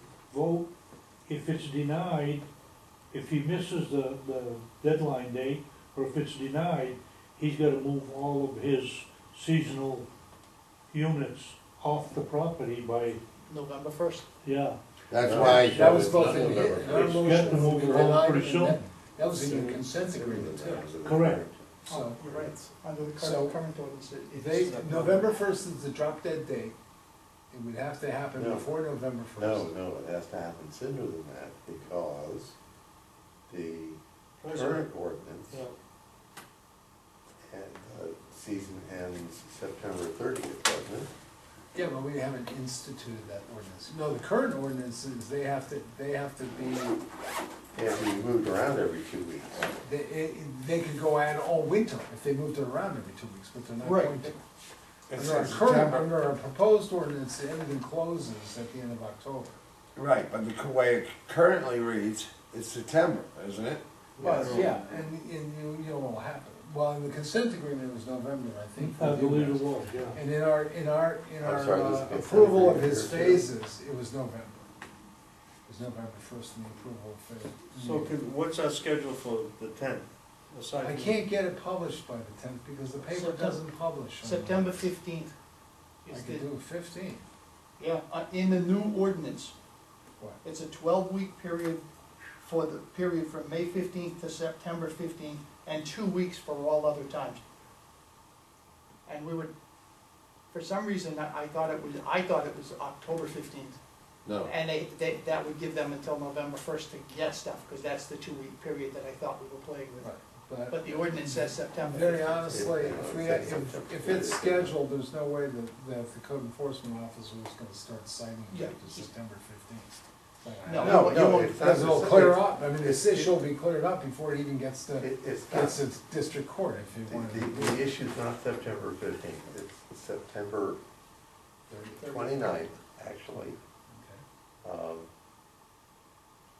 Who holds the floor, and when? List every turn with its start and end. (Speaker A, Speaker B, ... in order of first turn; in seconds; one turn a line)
Speaker A: 0.3-0.7
Speaker A: 1.3-2.5
Speaker A: 3.1-10.1
Speaker A: 10.9-13.2
Speaker B: 13.5-14.3
Speaker A: 14.4-18.8
Speaker C: 15.1-15.9
Speaker D: 15.2-17.6
Speaker E: 15.7-21.0
Speaker D: 19.2-21.6
Speaker A: 21.0-21.5
Speaker E: 21.8-22.2
Speaker B: 21.9-25.4
Speaker D: 22.2-22.6
Speaker E: 23.2-23.6
Speaker E: 24.3-26.8
Speaker F: 24.7-25.2
Speaker E: 27.5-29.7
Speaker D: 28.4-28.7
Speaker D: 29.4-32.6
Speaker D: 33.5-35.6
Speaker F: 34.4-34.9
Speaker F: 35.5-35.8
Speaker D: 37.5-41.1
Speaker E: 41.7-47.0
Speaker D: 47.7-49.7
Speaker E: 49.8-54.4
Speaker B: 53.9-54.2
Speaker E: 55.1-59.6
Speaker C: 55.2-56.1
Speaker C: 60.0-63.8
Speaker D: 64.2-64.7
Speaker E: 64.2-74.7
Speaker F: 64.3-64.7
Speaker C: 64.4-64.7
Speaker A: 68.8-70.2
Speaker D: 71.4-73.5
Speaker E: 75.7-78.2
Speaker F: 77.8-81.2
Speaker E: 80.8-84.9
Speaker B: 83.0-83.6
Speaker B: 84.2-85.3
Speaker B: 86.0-86.5
Speaker E: 86.1-87.2
Speaker B: 87.8-89.5
Speaker B: 90.4-91.8
Speaker B: 92.4-97.4
Speaker B: 99.1-99.5
Speaker B: 100.5-103.8
Speaker C: 104.3-104.5
Speaker B: 104.4-110.1
Speaker E: 110.0-127.9
Speaker B: 110.7-112.7
Speaker D: 112.5-114.7
Speaker B: 118.5-119.1
Speaker B: 120.7-121.5
Speaker D: 120.8-123.4
Speaker D: 125.0-125.8
Speaker D: 127.1-130.8
Speaker E: 131.7-132.6
Speaker D: 132.0-133.6
Speaker E: 133.9-134.2
Speaker D: 134.6-135.1